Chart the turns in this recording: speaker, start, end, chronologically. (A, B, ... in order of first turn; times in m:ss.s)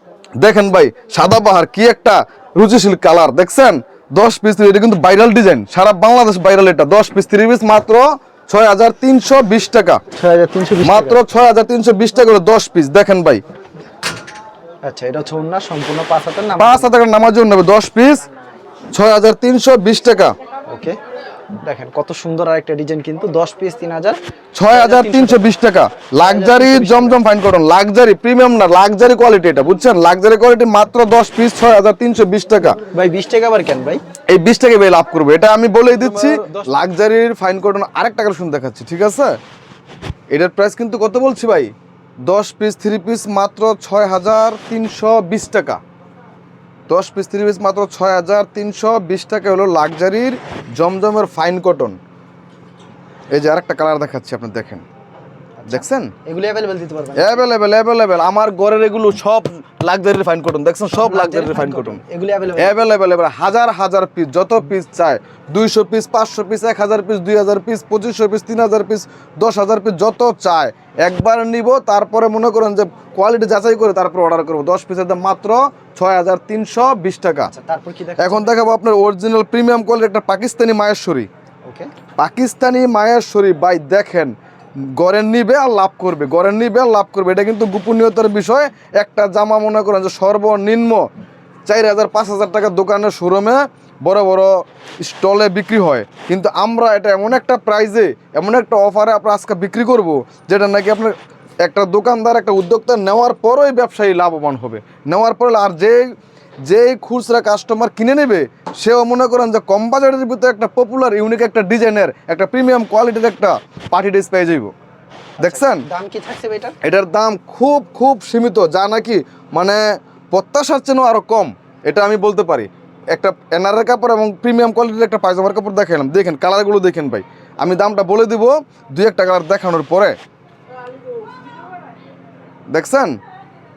0:00.4-0:10.0 A
0:10.2-0:11.2 B
0:10.8-0:13.4 A
0:14.8-0:17.0 B
0:16.6-0:18.2 A
0:18.9-0:20.3 A
0:20.7-0:21.0 B
0:21.6-0:24.2 B
0:24.6-0:32.8 A
0:24.7-0:25.4 B
0:26.2-0:27.2 B
0:32.9-0:34.0 B
0:34.3-0:39.4 A
0:35.9-0:36.8 B
0:40.3-0:41.7 A
0:42.3-0:45.8 A
0:46.9-0:52.0 A
0:53.3-0:54.8 A
0:55.6-0:57.4 B
0:55.7-0:56.1 A
0:57.2-1:02.0 A
1:00.9-1:02.8 B
1:02.6-1:17.5 A
1:17.5-1:18.5 B
1:18.2-1:21.3 A
1:21.6-1:21.9 B
1:22.2-1:31.0 A
1:31.7-1:46.1 A
1:46.7-1:54.7 A
1:55.4-1:56.8 B
1:55.4-1:55.8 A
1:56.8-2:10.2 A
2:12.7-2:13.1 A